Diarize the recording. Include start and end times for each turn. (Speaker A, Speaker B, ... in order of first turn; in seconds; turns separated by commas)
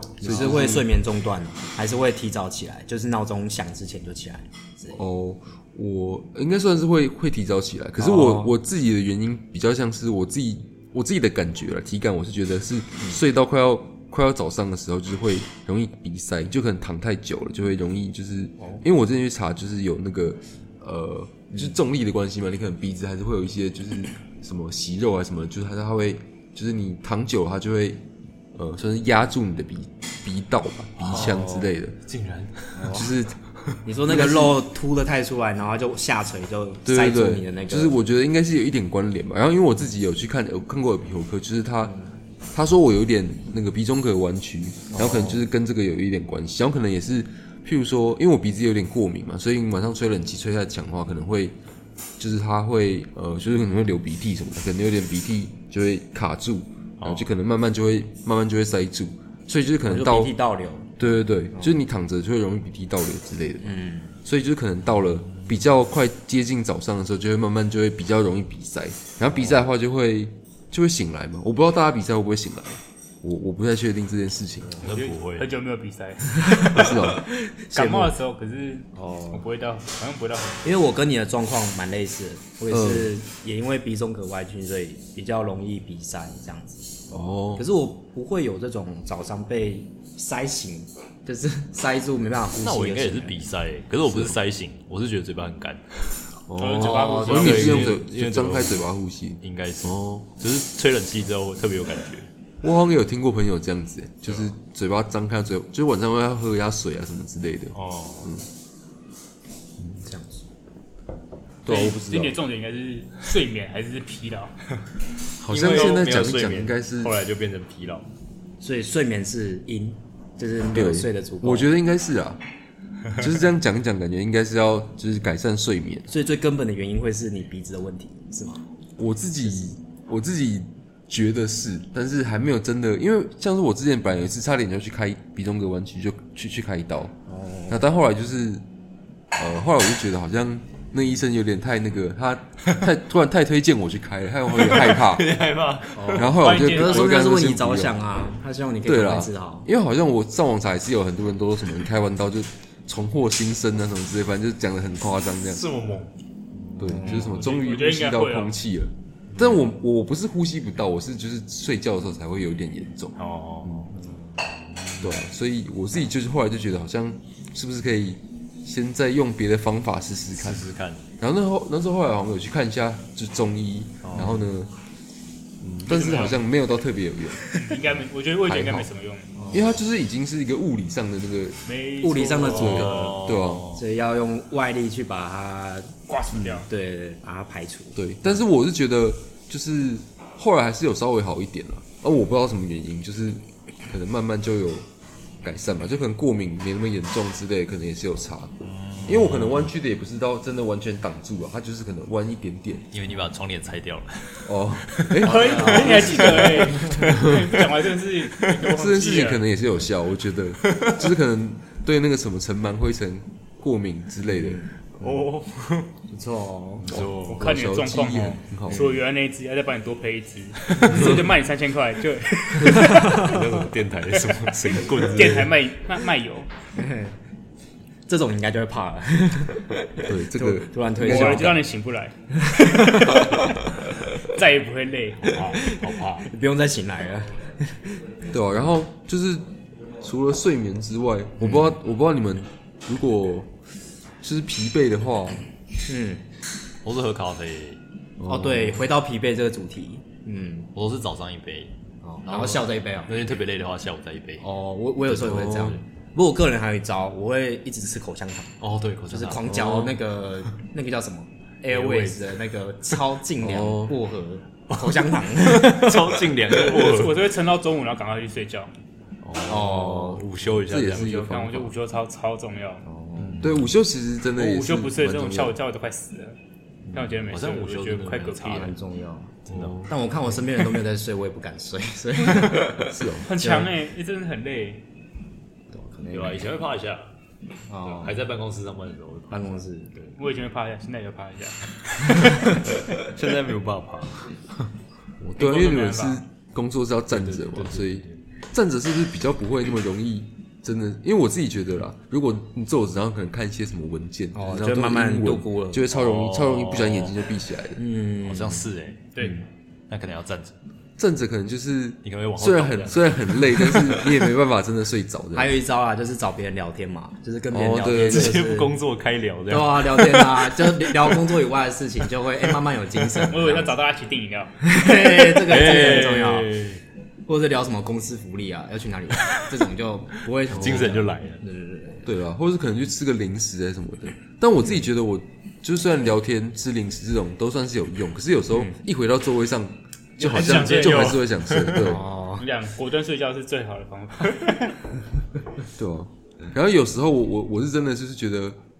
Speaker A: 0.2-5.0, Speaker B: 0.2-0.9, Speaker B: 5.0-28.0, Speaker A: 8.0-8.5, Speaker B: 28.5-32.0, Speaker C: 31.0-33.0, Speaker A: 32.7-33.1, Speaker B: 32.9-33.4, Speaker A: 33.8-38.0, Speaker B: 34.0-34.6, Speaker B: 36.8-42.0, Speaker B: 42.5-51.5, Speaker A: 44.9-45.4, Speaker B: 52.2-60.3, Speaker C: 57.0-57.2, Speaker A: 59.8-61.0, Speaker B: 61.0-74.8, Speaker A: 63.6-64.2, Speaker C: 74.8-75.5, Speaker D: 74.8-77.0, Speaker A: 76.5-78.1, Speaker B: 76.7-77.2, Speaker D: 77.7-80.8, Speaker A: 78.9-79.4, Speaker A: 80.6-87.0, Speaker B: 82.7-83.1, Speaker B: 87.1-87.6, Speaker A: 87.5-93.4, Speaker C: 92.6-96.2, Speaker B: 94.0-94.4, Speaker B: 96.5-100.3, Speaker D: 96.5-98.0, Speaker A: 96.8-97.5, Speaker C: 97.2-98.8, Speaker C: 99.4-102.3, Speaker B: 102.6-108.5, Speaker C: 107.7-108.3, Speaker A: 109.8-110.5, Speaker B: 111.7-112.4, Speaker D: 111.7-114.7, Speaker B: 115.4-117.2, Speaker C: 115.5-118.1, Speaker A: 118.6-121.7, Speaker B: 120.7-122.4, Speaker B: 123.1-126.0, Speaker A: 126.1-128.6, Speaker B: 129.0-137.1, Speaker A: 137.3-137.8, Speaker B: 137.7-138.6, Speaker B: 139.3-145.3, Speaker C: 144.5-146.4, Speaker A: 145.9-149.7, Speaker B: 146.1-148.0, Speaker D: 146.3-147.0, Speaker B: 148.8-155.6, Speaker C: 155.4-156.1, Speaker C: 156.8-157.5, Speaker B: 156.8-163.9, Speaker A: 156.8-157.2, Speaker D: 157.2-158.6, Speaker C: 159.3-159.7, Speaker C: 163.2-163.9, Speaker C: 164.8-165.2, Speaker B: 165.0-170.6, Speaker C: 170.3-171.1, Speaker B: 171.2-174.7, Speaker C: 174.0-174.4, Speaker C: 175.6-176.0, Speaker B: 175.8-177.4, Speaker D: 175.9-176.4, Speaker D: 177.5-179.5, Speaker B: 178.4-178.9, Speaker A: 179.4-179.7, Speaker B: 179.5-181.6, Speaker D: 181.6-183.2, Speaker A: 182.0-182.7, Speaker B: 182.5-183.7, Speaker C: 182.5-183.8, Speaker A: 183.7-185.9, Speaker D: 186.1-186.7, Speaker A: 186.5-188.0, Speaker B: 187.9-194.9, Speaker B: 195.4-198.5, Speaker C: 198.6-199.7, Speaker B: 199.0-202.9, Speaker C: 202.9-207.7, Speaker B: 204.4-206.6, Speaker D: 205.2-209.4, Speaker A: 205.3-207.1, Speaker B: 208.7-214.6, Speaker C: 210.7-211.0, Speaker A: 214.3-215.3, Speaker C: 215.0-215.9, Speaker A: 216.1-216.9, Speaker C: 216.8-217.4, Speaker B: 216.9-218.8, Speaker D: 217.2-223.4, Speaker C: 220.7-221.1, Speaker C: 222.7-225.6, Speaker D: 224.4-226.5, Speaker A: 226.8-227.1, Speaker A: 228.1-231.6, Speaker B: 230.1-231.6, Speaker D: 231.0-233.4, Speaker A: 232.4-233.7, Speaker D: 234.2-235.6, Speaker A: 235.3-238.0, Speaker C: 235.7-236.2, Speaker B: 238.3-239.4, Speaker B: 240.0-243.5, Speaker A: 241.4-241.7, Speaker B: 244.2-245.4, Speaker A: 245.8-246.2, Speaker C: 246.8-247.8, Speaker B: 248.2-248.8, Speaker A: 248.2-250.7, Speaker C: 250.7-251.7, Speaker A: 252.0-253.1, Speaker C: 252.2-254.4, Speaker A: 254.4-258.5, Speaker C: 255.1-255.8, Speaker B: 255.2-255.8, Speaker C: 258.6-259.9, Speaker A: 259.1-266.8, Speaker C: 261.7-262.3, Speaker B: 263.4-263.9, Speaker C: 264.7-267.3, Speaker D: 266.7-268.7, Speaker C: 269.2-271.1, Speaker A: 269.4-270.2, Speaker B: 270.6-271.8, Speaker D: 270.9-272.9, Speaker A: 272.9-273.4, Speaker C: 273.2-273.7, Speaker B: 273.4-275.6, Speaker D: 274.4-276.4, Speaker A: 276.9-277.1, Speaker D: 276.9-278.8, Speaker C: 277.3-278.7, Speaker A: 278.5-283.7, Speaker C: 279.5-279.9, Speaker B: 282.8-283.3, Speaker D: 283.2-284.9, Speaker A: 285.7-286.5, Speaker C: 286.1-287.1, Speaker A: 287.7-288.2, Speaker C: 287.8-290.1, Speaker A: 289.3-290.0, Speaker D: 290.1-291.7, Speaker A: 292.1-292.4, Speaker C: 292.9-294.4, Speaker B: 295.2-307.8, Speaker D: 295.4-296.2, Speaker C: 297.1-298.1, Speaker A: 304.3-305.8, Speaker C: 305.9-307.1, Speaker A: 307.8-308.7, Speaker C: 308.2-310.6, Speaker D: 309.1-309.4, Speaker B: 311.0-315.5, Speaker C: 312.0-314.3, Speaker A: 315.3-318.8, Speaker B: 317.5-318.4, Speaker C: 317.8-320.9, Speaker A: 319.5-323.7, Speaker D: 323.2-324.6, Speaker A: 324.6-326.5, Speaker C: 324.9-326.8, Speaker A: 327.3-332.1, Speaker C: 329.2-329.5, Speaker C: 330.4-331.4, Speaker B: 332.0-342.1, Speaker A: 338.5-338.8, Speaker D: 340.2-341.6, Speaker C: 340.3-341.8, Speaker A: 341.8-342.4, Speaker D: 342.4-344.9, Speaker B: 345.8-348.6